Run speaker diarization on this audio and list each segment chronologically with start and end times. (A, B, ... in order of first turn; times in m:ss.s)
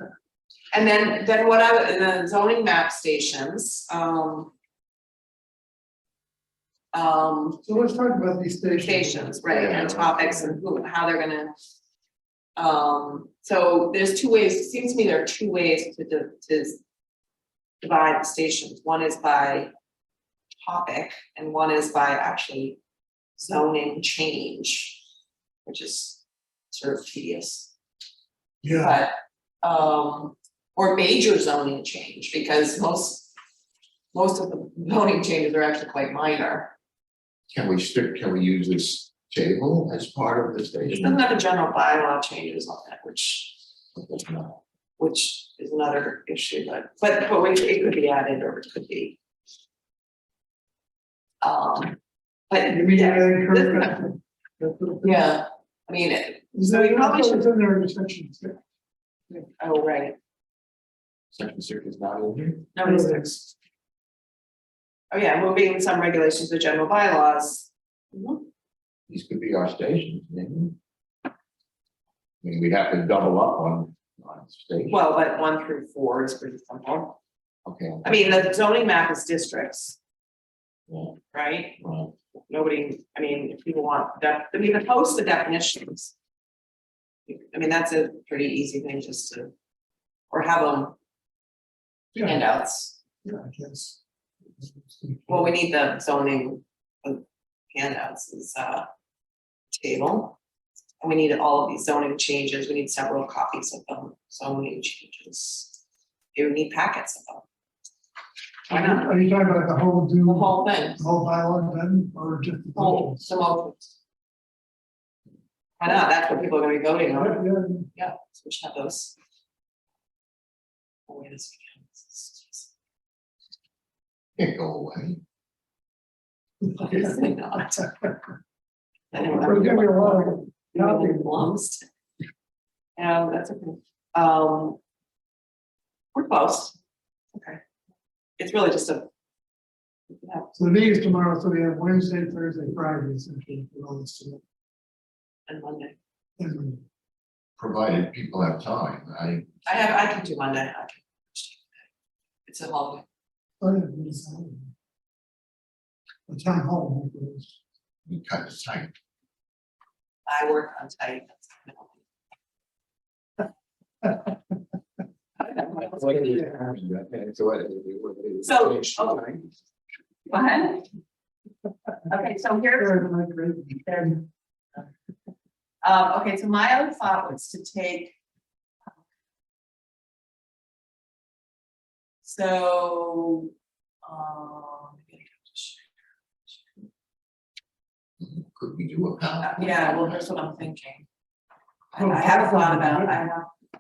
0:00.7-0:04.5 A
0:06.9-0:07.6 A
0:07.6-0:09.3 B
0:08.8-0:11.5 A
0:09.5-0:10.3 C
0:12.6-0:16.8 A
0:17.8-0:19.7 A
0:20.6-0:22.8 A
0:23.4-0:25.0 A
0:25.6-0:27.7 A
0:28.6-0:29.0 B
0:28.7-0:33.3 A
0:34.1-0:36.7 A
0:37.5-0:41.2 C
0:40.9-0:43.6 A
0:44.0-0:44.6 C
0:45.0-0:49.2 A
0:51.4-0:52.0 A
0:52.5-0:54.0 A
0:52.7-0:55.2 B
0:55.0-0:57.5 A
0:56.5-0:58.6 B
0:59.3-1:00.2 A
1:01.3-1:02.7 C
1:02.7-1:03.5 A
1:02.8-1:03.3 B
1:05.1-1:08.4 A
1:09.1-1:10.8 C
1:12.4-1:15.0 C
1:14.9-1:17.2 A
1:17.7-1:18.2 C
1:18.0-1:20.0 A
1:20.9-1:21.2 C
1:21.3-1:21.8 A
1:21.8-1:22.1 C
1:22.5-1:26.1 A
1:27.3-1:29.5 A
1:30.3-1:31.0 A
1:32.2-1:32.4 B
1:32.2-1:33.0 A
1:33.2-1:34.0 B
1:34.6-1:35.5 B
1:35.3-1:38.9 A
1:39.7-1:40.4 A
1:41.0-1:45.7 A
1:46.4-1:47.4 A
1:48.7-1:49.2 A
1:48.7-1:53.3 B
1:50.2-1:51.0 A
1:52.8-1:53.9 A
1:55.8-1:59.2 A
1:57.1-1:57.9 B
2:01.1-2:02.7 A
2:04.4-2:05.2 C
2:06.6-2:08.1 A
2:09.1-2:11.8 A
2:09.4-2:11.3 B
2:13.0-2:14.8 A
2:16.2-2:16.8 A
2:17.4-2:17.6 A
2:18.4-2:19.1 A
2:20.1-2:20.5 A
2:20.6-2:24.4 B
2:25.5-2:26.0 A
2:26.4-2:26.8 B
2:27.6-2:30.1 C
2:29.7-2:31.8 A
2:32.5-2:33.0 A
2:33.6-2:34.7 B
2:36.3-2:37.6 B
2:38.1-2:38.9 C
2:40.3-2:42.0 A
2:45.4-2:45.9 A
2:45.6-2:49.5 C
2:48.4-2:49.2 A
2:50.3-2:50.9 A
2:52.1-2:53.0 A
2:52.8-2:54.2 B
2:55.8-2:58.1 A
3:02.2-3:03.5 A
3:04.0-3:05.9 A
3:08.2-3:10.2 C
3:09.4-3:11.1 A
3:11.9-3:13.5 A
3:12.0-3:13.2 B